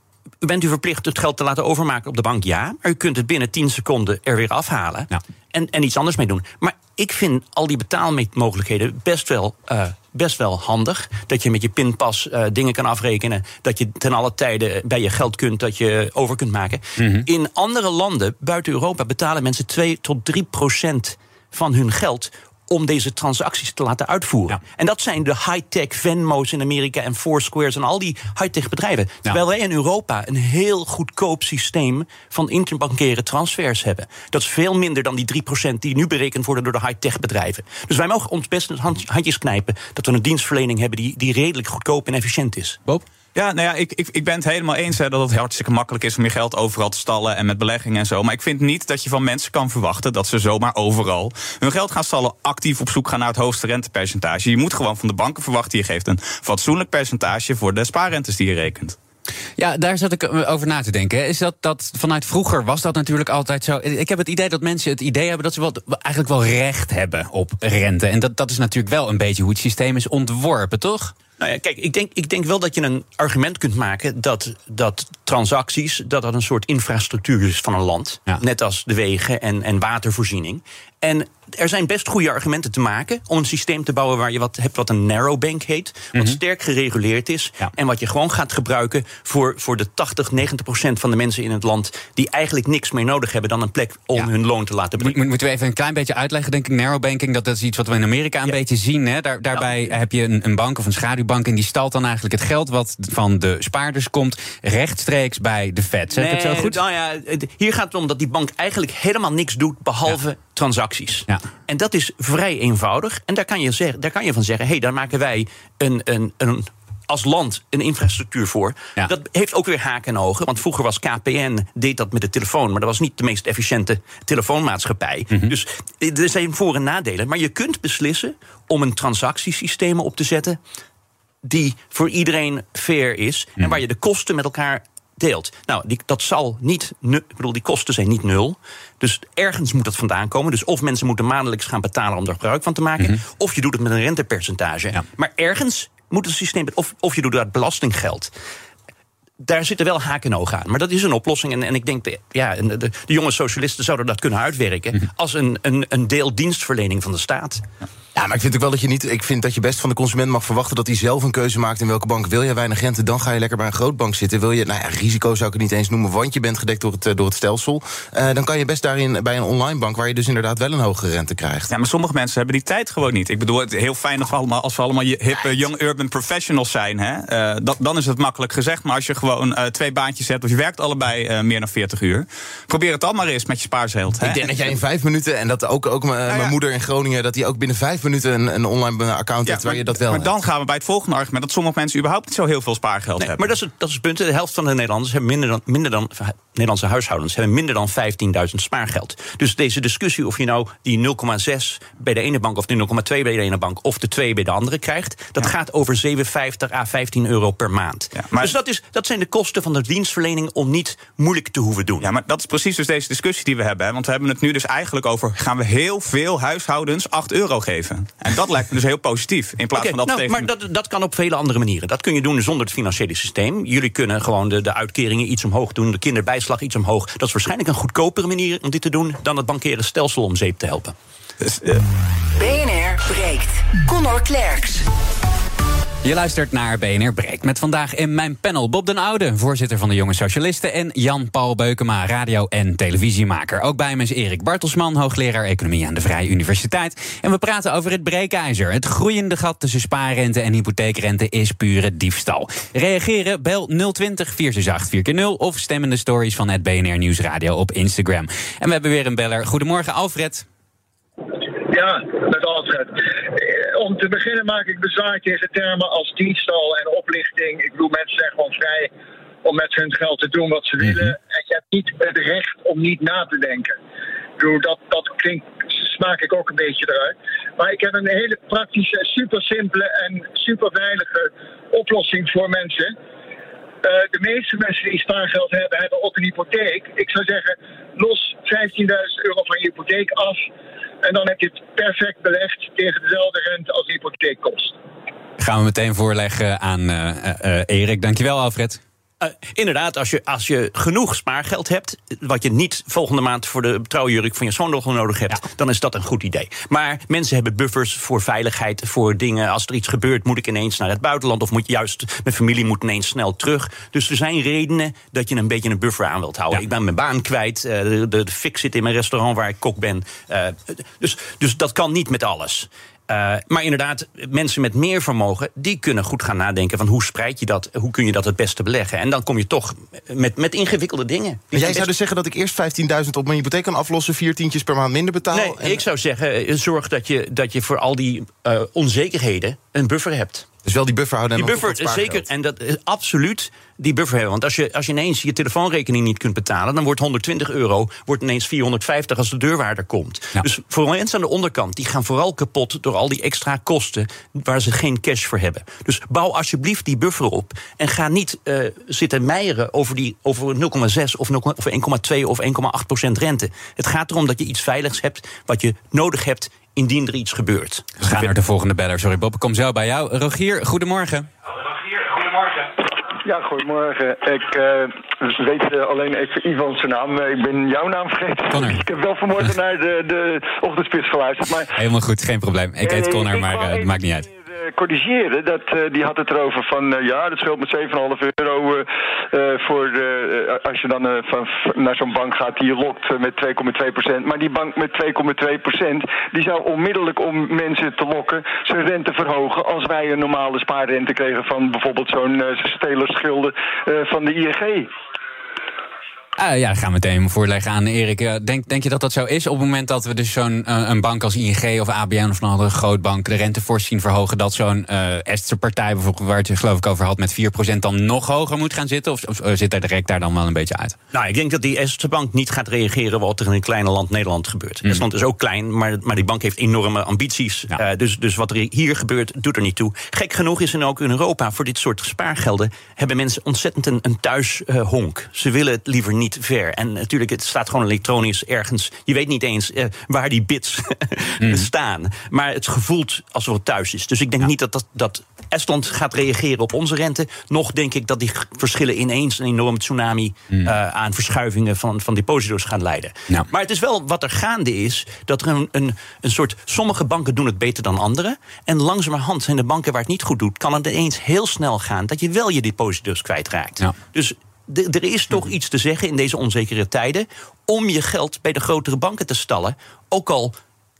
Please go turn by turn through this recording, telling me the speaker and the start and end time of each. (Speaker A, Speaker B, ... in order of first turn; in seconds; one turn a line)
Speaker A: 0.4-42.8
Speaker B: 17.0-17.2
Speaker C: 43.3-59.0
Speaker B: 59.6-71.1
Speaker A: 71.4-95.2
Speaker B: 95.0-106.8
Speaker A: 99.5-99.9
Speaker A: 106.1-130.6
Speaker A: 131.4-148.3
Speaker A: 149.4-157.6
Speaker D: 158.1-171.7
Speaker C: 171.7-184.5
Speaker D: 184.2-190.3
Speaker C: 186.3-186.5
Speaker C: 189.4-193.5
Speaker A: 193.2-212.1
Speaker C: 208.2-208.6
Speaker C: 212.0-220.5
Speaker A: 219.7-230.9
Speaker C: 231.4-231.8
Speaker E: 232.3-234.8
Speaker B: 236.0-260.4
Speaker F: 261.5-268.9
Speaker F: 269.4-273.8
Speaker F: 274.4-282.9
Speaker F: 283.8-290.5
Speaker F: 291.0-294.8
Speaker B: 295.4-298.8
Speaker A: 299.2-331.9
Speaker D: 331.5-335.8
Speaker A: 335.3-340.5
Speaker D: 340.6-342.2
Speaker A: 341.4-368.2
Speaker B: 368.0-371.3
Speaker G: 373.2-381.7
Speaker B: 378.5-378.8
Speaker B: 381.7-384.2
Speaker G: 382.8-404.9
Speaker B: 406.4-420.9
Speaker A: 421.1-470.5
Speaker B: 441.4-441.7